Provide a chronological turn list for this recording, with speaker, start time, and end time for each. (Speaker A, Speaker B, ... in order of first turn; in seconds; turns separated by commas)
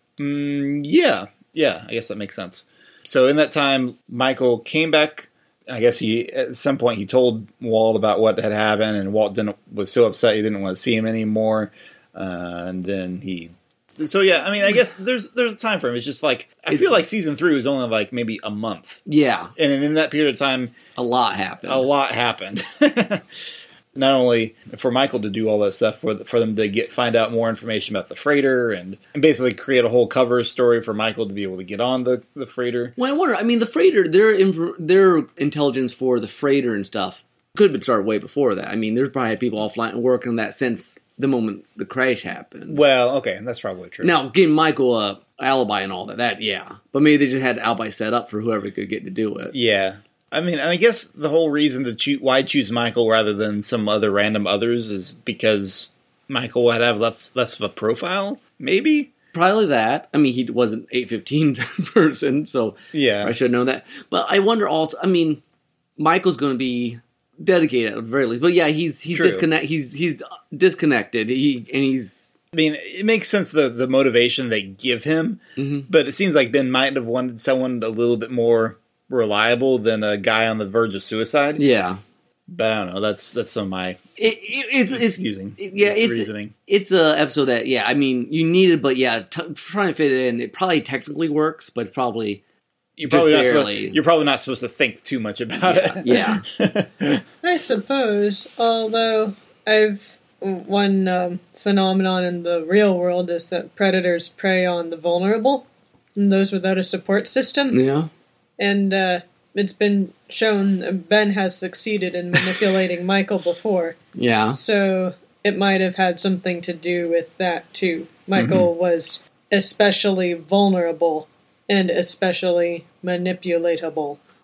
Speaker A: 0.2-19.0, Speaker B: 16.7-17.0, Speaker B: 19.1-19.5, Speaker A: 19.6-20.7, Speaker B: 20.9-21.9, Speaker A: 21.6-23.2, Speaker A: 23.9-32.9, Speaker B: 33.0-42.8, Speaker A: 42.7-44.2, Speaker B: 44.0-49.5, Speaker A: 49.5-59.1, Speaker B: 59.3-65.4, Speaker A: 62.9-63.3, Speaker B: 66.0-72.3, Speaker A: 69.1-69.5, Speaker A: 72.5-81.6, Speaker B: 75.6-75.9, Speaker B: 81.5-82.0, Speaker A: 82.5-84.0, Speaker B: 84.2-92.4, Speaker A: 84.9-86.5, Speaker A: 93.0-97.2, Speaker B: 93.0-94.0, Speaker B: 95.6-96.4, Speaker C: 97.4-107.8, Speaker B: 107.7-108.1, Speaker C: 108.6-114.0, Speaker B: 114.2-114.6, Speaker C: 114.5-124.2, Speaker A: 118.3-118.7